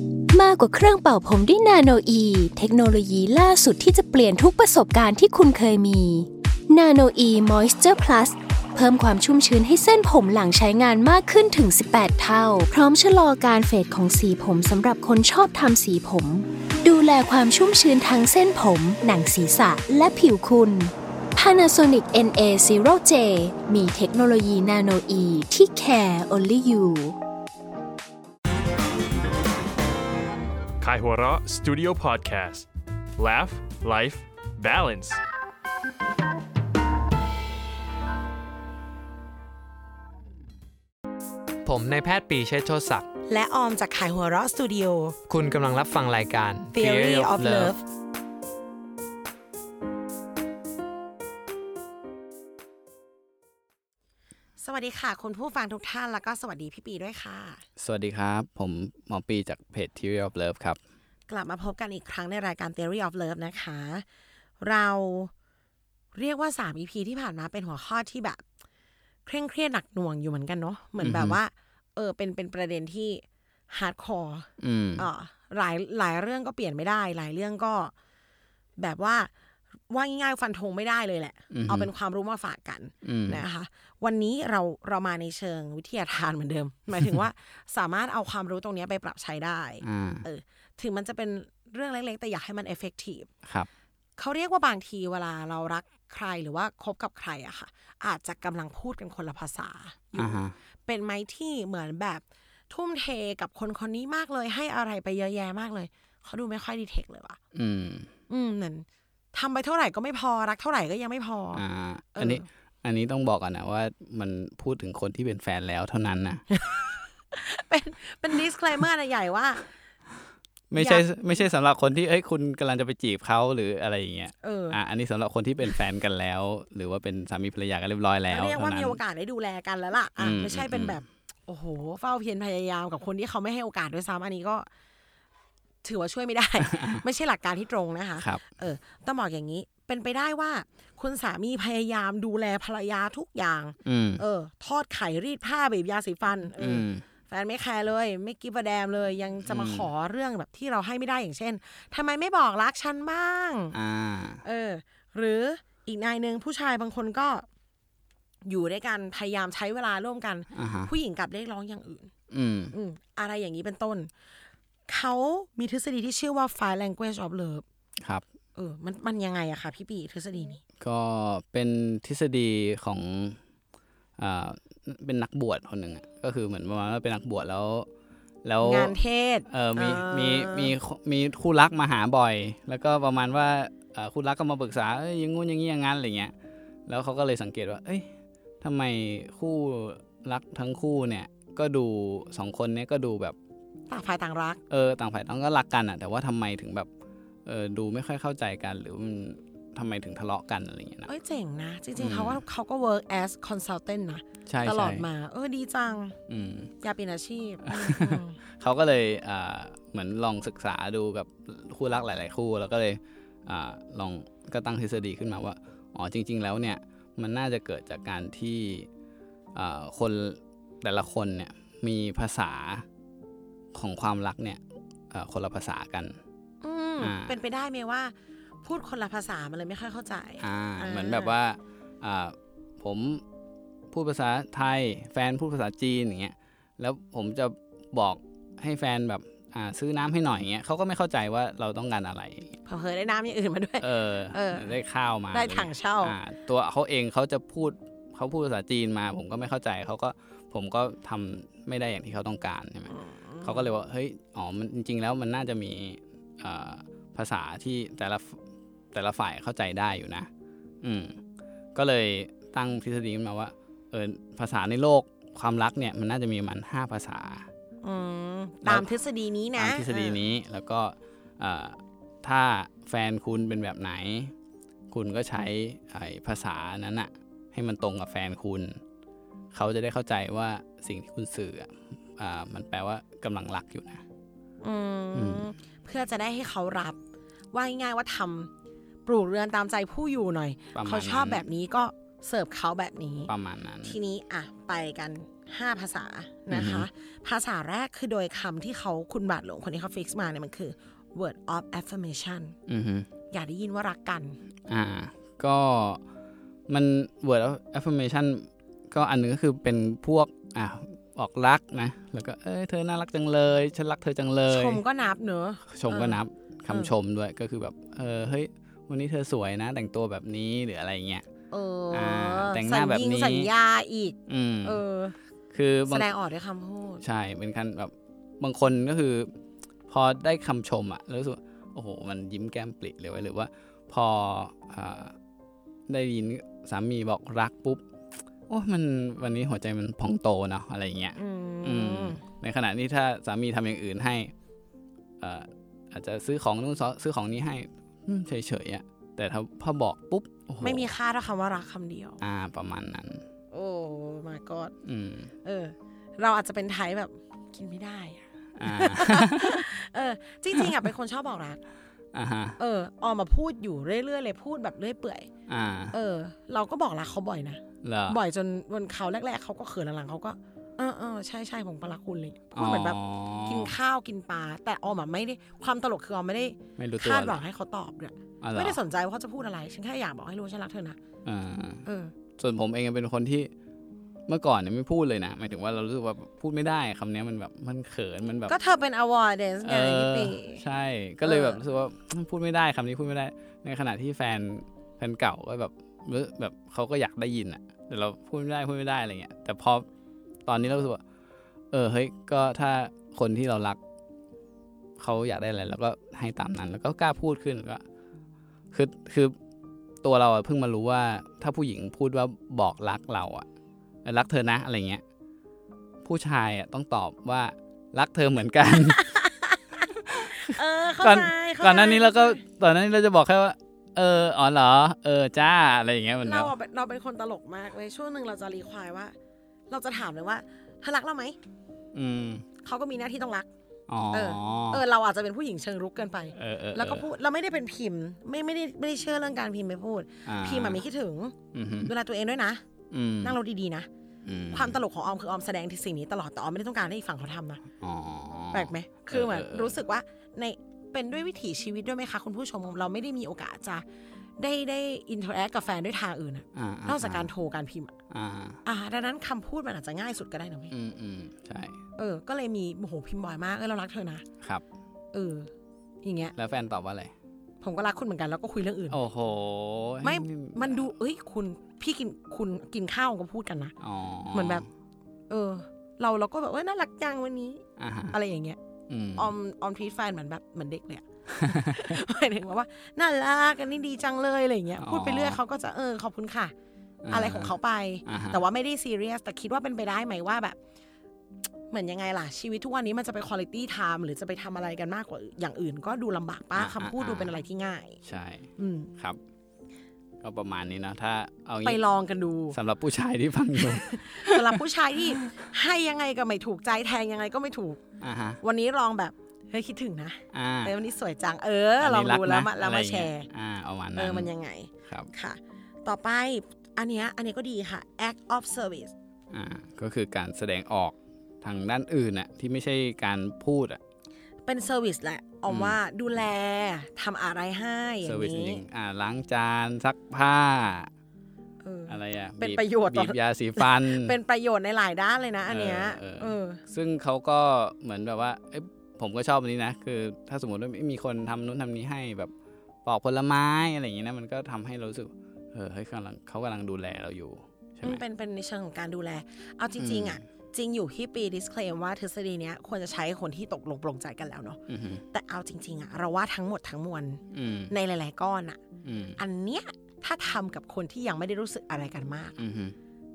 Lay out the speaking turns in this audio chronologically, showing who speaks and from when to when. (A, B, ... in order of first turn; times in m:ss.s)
0:00.3-0:27.2 A
0:30.8-0:35.2 B
0:41.6-0:43.1 C
0:43.3-0:45.2 D
0:45.3-0:47.7 C
0:46.7-0:47.8 D
0:54.6-0:57.6 D
0:57.8-1:00.8 E
1:01.3-1:04.0 D
1:04.6-1:05.3 D
1:06.1-1:08.4 D
1:09.2-1:17.9 D
1:11.0-1:11.4 E
1:14.6-1:15.1 E
1:18.8-1:19.3 D
1:19.9-1:33.3 D
1:21.5-1:21.9 E
1:23.0-1:23.4 E
1:29.8-1:30.2 E
1:34.2-1:47.4 D
1:40.2-1:40.5 E
1:47.5-1:48.1 E
1:48.3-1:51.6 D
1:51.6-1:56.4 E
1:52.2-1:52.4 D
1:56.5-1:59.6 D
2:00.7-2:09.0 E
2:00.8-2:01.0 D
2:04.4-2:04.8 D
2:08.3-2:14.7 D
2:10.2-2:11.0 E
2:15.8-2:33.7 D
2:23.8-2:24.2 E
2:26.6-2:27.0 E
2:29.4-2:29.9 E
2:33.7-2:34.4 E
2:34.4-2:37.4 D
2:38.4-2:42.1 D
2:40.5-2:40.9 E
2:42.3-2:42.7 E
2:42.7-2:44.1 D
2:44.9-2:47.6 D
2:48.6-2:50.6 D
2:50.8-2:53.4 E
2:54.2-2:57.9 E
2:58.4-2:59.0 E
2:58.6-3:00.7 D
2:59.5-3:06.3 E
3:06.9-3:13.4 E
3:13.9-3:14.6 D
3:14.7-3:16.9 E
3:17.4-3:21.1 E
3:21.1-3:26.2 D
3:22.0-3:22.4 E
3:24.4-3:25.1 E
3:26.3-3:26.7 E
3:26.8-3:28.4 D
3:27.6-3:38.9 E
3:39.5-3:42.8 E
3:43.7-3:44.6 E
3:45.1-3:46.2 E
3:46.6-3:48.1 D
3:47.0-3:47.3 E
3:48.6-3:51.3 D
3:50.4-3:53.2 E
3:53.9-4:02.6 E
4:02.6-4:04.7 D
4:03.8-4:12.9 E
4:05.3-4:06.2 D
4:12.9-4:13.7 D
4:13.4-4:18.4 E
4:18.9-4:20.3 E
4:20.8-4:21.2 E
4:21.7-4:27.5 E
4:27.8-4:30.2 D
4:29.6-4:34.3 E
4:34.9-4:38.8 E
4:39.5-4:44.0 E
4:44.6-4:47.0 D
4:45.1-4:45.4 E
4:47.5-4:48.5 D
4:49.0-4:53.3 D
4:50.7-4:51.4 E
4:53.3-4:54.0 E
4:53.8-5:02.6 D
4:56.5-4:56.9 E
5:02.7-5:03.1 E
5:03.3-5:04.4 D
5:04.7-5:06.0 E
5:06.7-5:14.8 E
5:14.5-5:16.9 D
5:15.7-5:21.3 E
5:21.5-5:25.1 D
5:21.9-5:23.5 E
5:24.3-5:24.8 E
5:25.5-5:26.1 E
5:25.9-5:27.0 D
5:27.0-5:29.3 E
5:29.9-5:35.1 E
5:35.9-5:37.8 E
5:38.5-5:44.3 E
5:41.2-5:42.2 D
5:45.2-5:50.9 E
5:50.6-5:52.2 D
5:52.2-5:53.2 E
5:53.5-5:54.7 D
5:54.8-5:55.3 E
5:55.4-6:01.6 D
5:58.6-5:59.7 E
6:02.1-6:02.6 E
6:02.6-6:05.3 D
6:05.5-6:05.9 E
6:05.9-6:21.0 D
6:07.8-6:08.2 E
6:12.5-6:13.7 E
6:16.8-6:17.4 E
6:18.4-6:18.8 E
6:21.2-6:21.8 E
6:21.8-6:22.1 D
6:22.4-6:23.5 E
6:24.3-6:28.5 E
6:28.5-6:30.6 D
6:29.6-6:39.8 E
6:31.2-6:31.6 D
6:40.4-6:41.0 E
6:41.7-6:43.8 E
6:45.0-6:47.8 E
6:48.7-6:49.3 E
6:50.0-6:53.5 E
6:54.0-6:55.0 E
6:56.0-6:59.0 E
6:58.8-7:02.4 D
7:00.1-7:06.5 E
7:06.2-7:09.1 D
7:09.7-7:11.4 D
7:11.9-7:12.4 E
7:12.6-7:13.5 D
7:13.9-7:14.8 E
7:14.1-7:22.6 D
7:16.4-7:17.1 E
7:20.2-7:20.8 E
7:21.5-7:21.9 E
7:22.9-7:23.4 E
7:23.2-7:23.9 D
7:24.2-7:24.8 E
7:24.5-7:27.6 D
7:27.8-7:29.8 E
7:28.5-7:33.8 D
7:34.4-7:37.9 D
7:36.5-7:37.3 E
7:38.1-7:38.6 E
7:38.6-7:40.7 D
7:40.7-7:41.8 E
7:42.0-7:44.2 D
7:45.1-7:45.5 D
7:46.0-7:46.3 D
7:46.4-7:47.1 E
7:47.6-7:49.0 D
7:48.9-7:50.9 E
7:50.0-7:53.7 D
7:53.8-7:54.7 E
7:54.3-7:54.6 D
7:55.3-7:58.6 D
7:57.8-7:58.1 E
7:58.9-7:59.3 E
7:59.2-8:06.5 D
8:01.4-8:01.9 E
8:04.8-8:05.4 E
8:07.0-8:07.5 E
8:07.1-8:10.6 D
8:08.0-8:08.4 E
8:11.7-8:18.0 D
8:16.5-8:17.4 E
8:18.0-8:19.2 E
8:18.6-8:18.9 D
8:20.2-8:21.8 E
8:21.6-8:22.6 D
8:22.5-8:24.6 E
8:23.6-8:27.8 D
8:28.0-8:28.4 E
8:28.4-8:33.3 D
8:30.3-8:30.7 E
8:31.8-8:34.3 E
8:33.9-8:38.9 D
8:39.3-8:43.8 E
8:44.4-8:48.6 D
8:45.5-8:45.8 E
8:48.0-8:50.9 E
8:51.6-8:56.6 D
8:51.9-8:54.2 E
8:55.5-9:02.3 E
9:02.8-9:08.0 E
9:07.8-9:14.6 D
9:09.8-9:10.2 E
9:14.7-9:15.0 E
9:15.1-9:18.6 D
9:17.3-9:17.7 E
9:18.8-9:19.2 E
9:19.2-9:22.4 D
9:22.4-9:22.8 E